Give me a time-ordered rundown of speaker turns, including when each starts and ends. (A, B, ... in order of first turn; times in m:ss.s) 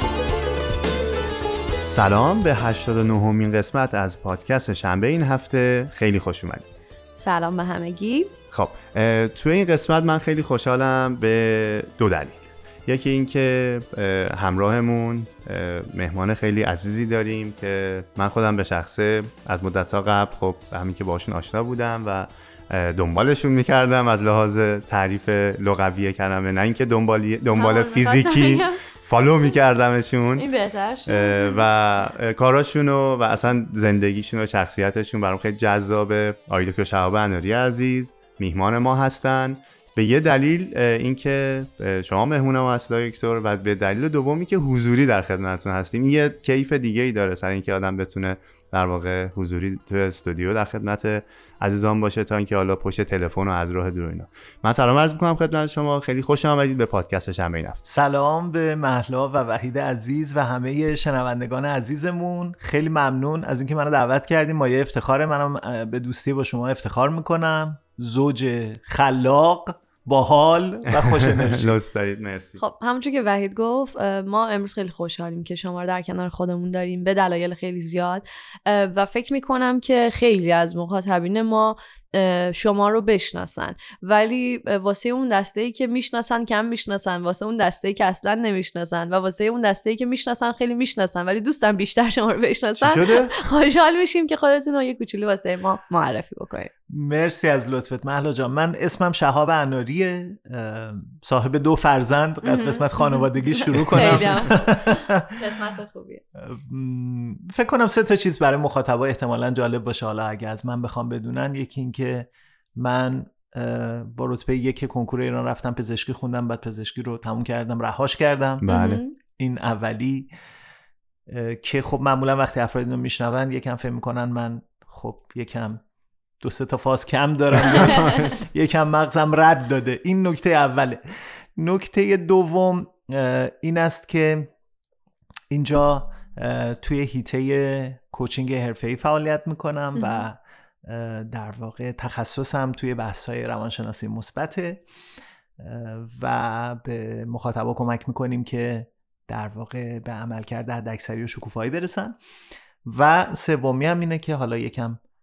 0:01.8-0:06.7 A
0:07.2-0:08.3 B
0:08.5-0:30.5 A
0:27.6-0:28.8 B
0:30.4-0:31.6 B
0:31.1-0:57.8 A
0:57.9-1:11.7 C
1:10.9-1:12.6 A
1:12.6-1:36.7 B
1:32.8-1:33.4 A
1:36.9-1:45.4 C
1:42.4-1:43.3 B
1:43.9-1:46.2 B
1:46.4-1:58.6 C
1:58.6-1:59.0 A
1:58.7-1:59.1 B
1:59.4-2:00.3 C
2:01.3-2:05.8 C
2:06.4-2:11.0 C
2:07.6-2:08.3 A
2:07.8-2:08.2 B
2:11.6-2:14.5 C
2:15.5-2:24.8 C
2:20.0-2:20.2 B
2:25.6-2:32.2 C
2:32.9-2:35.0 C